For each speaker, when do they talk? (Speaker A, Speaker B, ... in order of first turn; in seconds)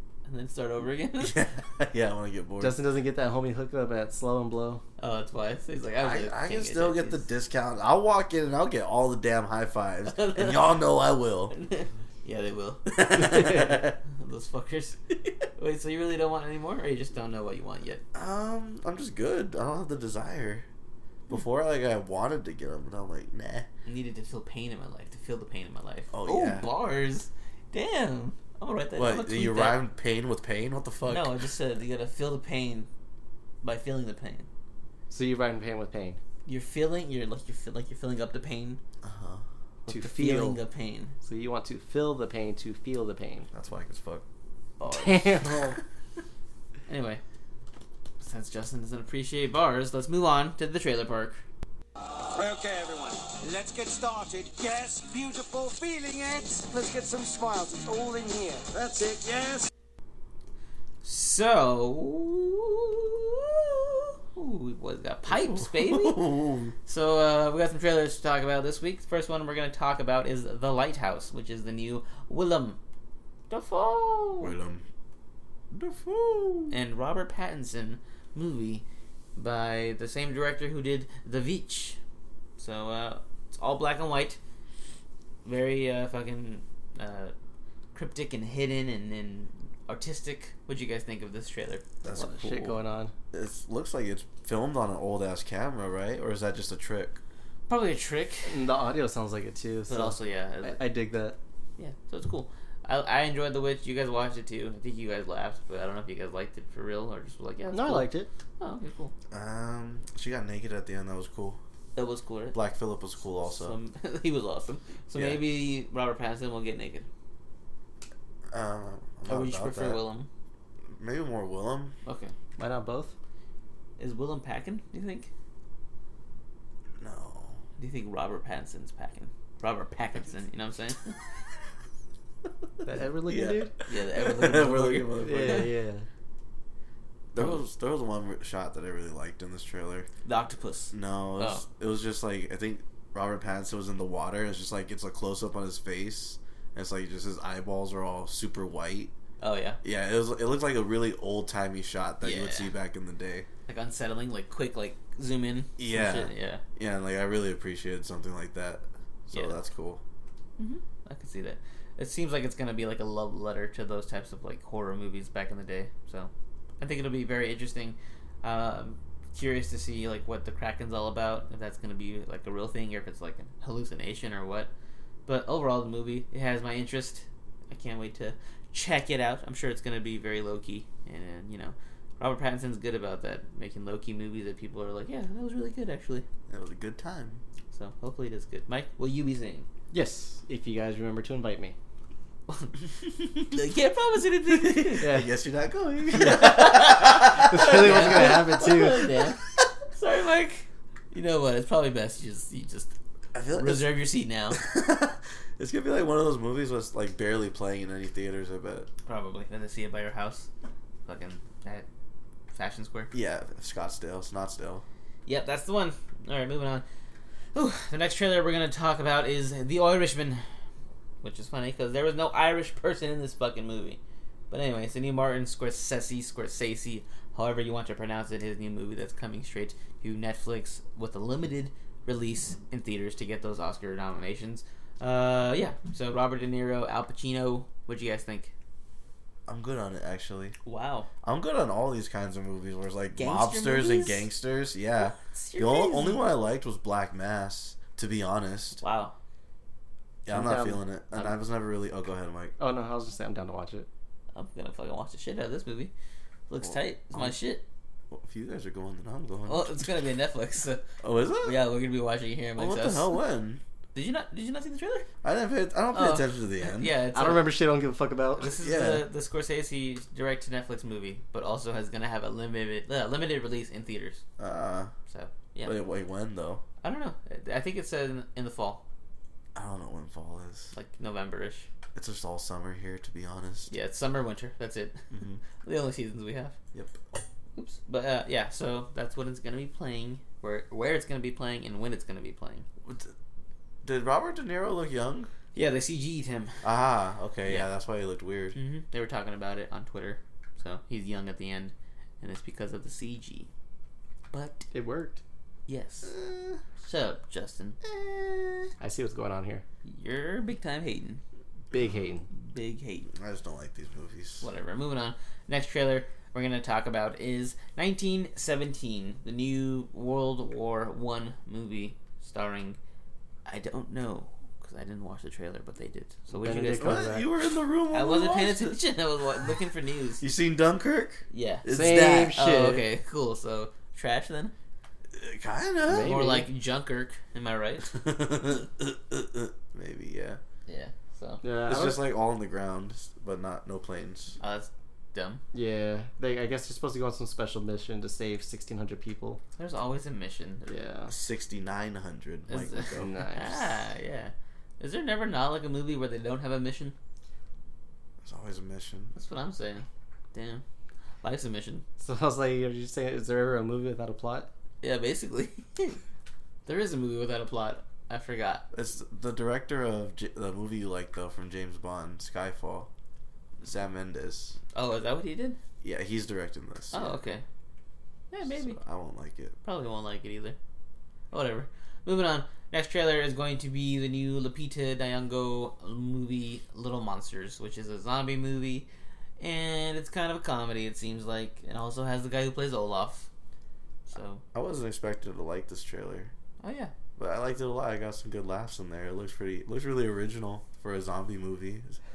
Speaker A: 0.3-1.4, 5.0-7.3, 10.1-10.7, 11.5-18.0, 23.9-29.8, 31.1-32.9, 33.6-34.5, 36.5-38.8, 39.9-41.1, 44.8-45.3, 46.9-47.2, 48.2-51.4, 61.0-66.2, 66.9-72.8, 73.5-74.5, 76.7-78.8, 79.4-82.0, 82.6-84.4, 85.5-87.3, 87.9-91.8, 97.7-98.6, 99.9-100.9, 101.8-109.1, 112.0-112.6, 113.4-117.1, 119.3-120.3, 122.0-122.3, 124.0-125.3, 127.8-131.2, 133.9-135.7, 137.4-137.6, 140.2-141.6, 149.4-149.8, 152.2-152.7, 153.7-156.6, 159.3-159.6, 160.6-174.7, 175.3-186.2, 187.7-189.7, 192.5-192.8, 193.3-195.1, 196.1-199.4, 199.9-202.9, 203.6-204.6, 209.1-210.5, 211.1-211.9, 212.5-213.1, 215.3-216.8, 217.5-220.4, 221.2-238.5, 240.6-241.1, 243.2-244.3, 245.0-246.2, 248.8-249.1, 254.3-255.9, 256.5-257.6, 259.5-263.2, 263.9-265.1, 265.9-267.5, 268.4-274.2, 275.1-275.8, 276.8-278.8, 280.7-281.7, 283.7-286.6, 287.6-292.7, 295.6-296.6, 298.6-303.5, 304.3-304.7, 305.7-306.1, 306.8-307.8, 309.9-311.2, 312.3-313.1, 314.4-322.8, 323.4-327.1, 327.9-330.2, 331.3-334.5, 336.0-337.9, 340.7-341.4, 344.4-345.4, 349.6-350.7, 352.5-356.9, 359.1-360.6, 361.2-361.9, 364.8-366.0, 366.6-368.6, 374.7-375.6, 376.9-377.4, 378.3-378.8, 379.6-380.6, 381.3-388.9, 389.4-393.3, 394.1-394.4, 396.6-396.9
Speaker B: 1.2-2.8, 6.0-11.5, 12.9-14.0, 18.1-20.7, 21.3-23.7, 26.1-26.7, 29.0-31.3, 39.0-39.4, 43.5-44.2, 65.3-66.7, 74.4-74.8, 75.7-76.7, 92.0-92.8, 93.3-97.2, 109.3-111.6, 112.5-113.8, 115.1-115.4, 118.5-120.0, 120.9-121.9, 127.0-127.6, 133.3-135.7, 137.3-140.1, 140.9-149.1, 149.8-153.5, 155.8-160.0, 186.5-187.4, 194.7-198.9, 203.3-204.0, 204.5-208.9, 213.1-214.8, 239.5-240.6, 241.2-248.8, 250.3-252.6, 256.6-257.4, 258.1-259.9, 261.0-261.6, 262.6-263.6, 265.2-267.0, 268.6-269.1, 274.4-274.9, 275.6-276.6, 279.6-280.7, 281.9-283.7, 285.1-285.4, 286.7-287.0, 292.9-293.1, 293.8-295.3, 296.6-298.6, 306.1-306.6, 307.9-308.7, 313.1-314.5, 326.8-328.8, 330.2-332.4, 335.1-336.2, 337.9-340.4, 341.7-344.4, 351.1-353.1, 358.2-359.1, 368.7-372.9, 373.6-374.6, 375.8-377.2, 378.4-379.6, 394.5-396.3, 397.2-402.0
Speaker C: 2.6-4.8, 35.1-36.2, 39.9-40.6, 41.2-43.5, 44.9-45.8, 92.2-93.1, 98.5-101.4, 107.7-108.3, 122.6-123.1, 132.8-133.7, 135.2-136.1, 189.9-191.8, 195.0-195.3, 197.3-199.1, 250.3-251.3, 252.6-253.9, 267.1-268.5, 304.7-305.2, 308.8-309.6, 311.7-312.2, 326.3-327.3, 331.7-332.9, 335.9-336.5, 341.4-342.1, 345.5-349.4, 350.7-351.1, 352.9-353.7, 362.0-364.5
Speaker D: 52.3-59.7